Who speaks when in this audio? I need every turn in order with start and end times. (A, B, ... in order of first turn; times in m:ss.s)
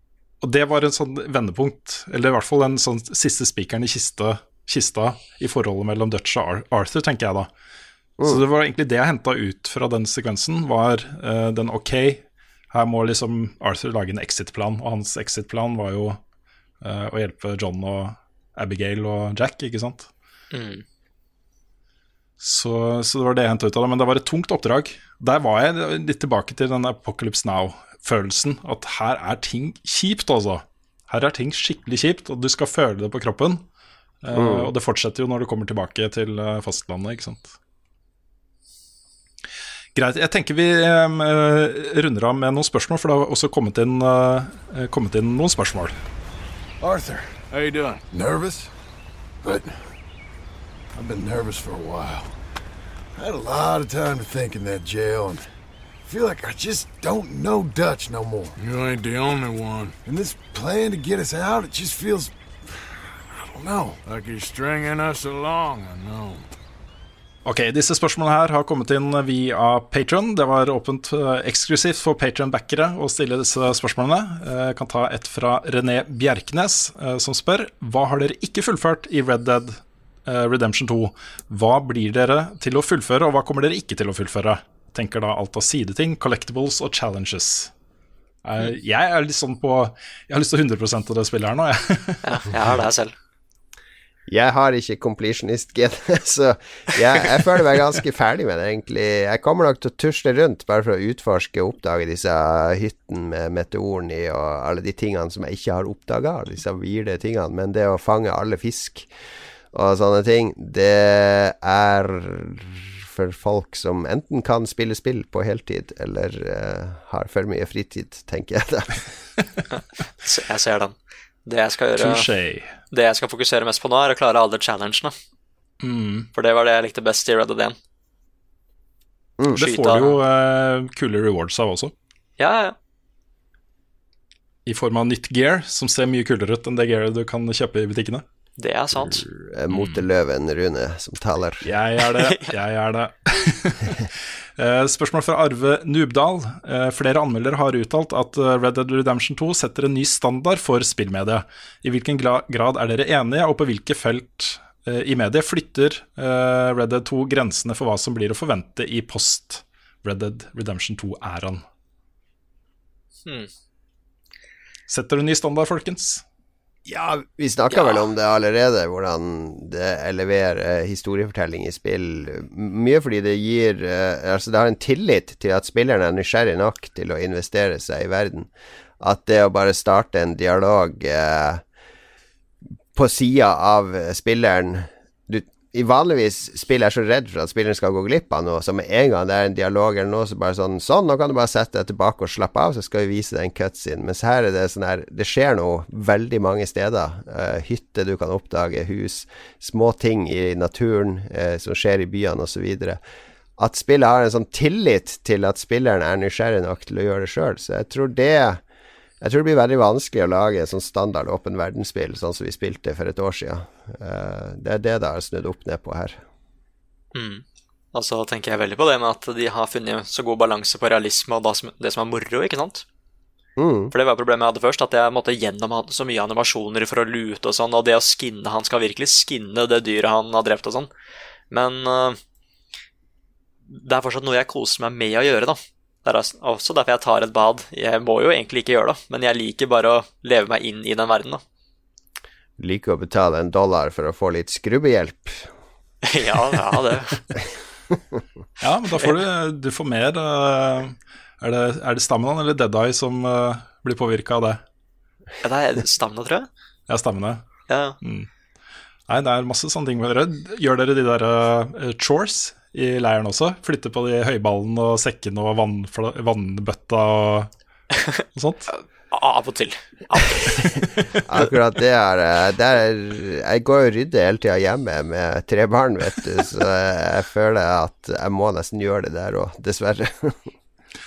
0:00.4-0:07.5 A
0:08.2-0:16.2 A
0:16.8-0:20.1 A
0:20.5-0:20.8 B
0:22.4-0:33.6 A
0:34.2-0:37.5 A
0:34.3-0:34.7 C
0:40.0-0:46.0 A
0:46.8-0:47.3 D
0:47.5-0:48.0 E
0:48.1-0:48.7 D
0:49.4-0:49.7 D
0:51.0-0:52.3 D
0:53.2-0:55.4 D
0:56.0-0:58.6 D
0:58.6-1:00.0 E
1:00.0-1:02.4 D
1:03.3-1:04.0 D
1:04.0-1:06.5 E
1:07.4-1:27.7 A
1:28.4-1:32.2 A
1:32.2-1:33.1 B
1:34.3-1:49.1 C
1:49.7-1:59.0 C
2:00.2-2:02.2 B
2:02.0-2:02.8 A
2:02.9-2:05.1 B
2:05.8-2:06.3 A
2:06.3-2:07.8 B
2:09.5-2:10.2 B
2:09.6-2:11.9 A
2:12.4-2:12.8 B
2:14.7-2:18.2 A
2:18.6-2:19.2 B
2:19.0-2:21.7 C
2:19.7-2:20.0 A
2:21.6-2:41.6 A
2:22.2-2:22.4 B
2:44.9-2:46.2 A
2:46.9-2:58.5 C
2:47.7-2:48.0 B
2:59.0-3:01.6 C
3:03.0-3:23.0 C
3:23.6-3:28.6 C
3:29.2-3:36.2 C
3:37.2-3:37.4 B
3:37.9-3:42.8 B
3:43.6-3:43.9 C
3:43.9-3:50.9 B
3:51.5-3:52.2 B
3:53.7-4:01.4 B
4:02.6-4:05.5 C
4:06.0-4:07.4 B
4:08.6-4:14.6 A
4:15.4-4:16.5 B
4:16.9-4:17.4 A
4:17.7-4:18.0 B
4:18.0-4:18.3 A
4:19.1-4:27.5 A
4:28.4-4:28.7 A
4:28.7-4:30.7 B
4:31.3-4:40.5 C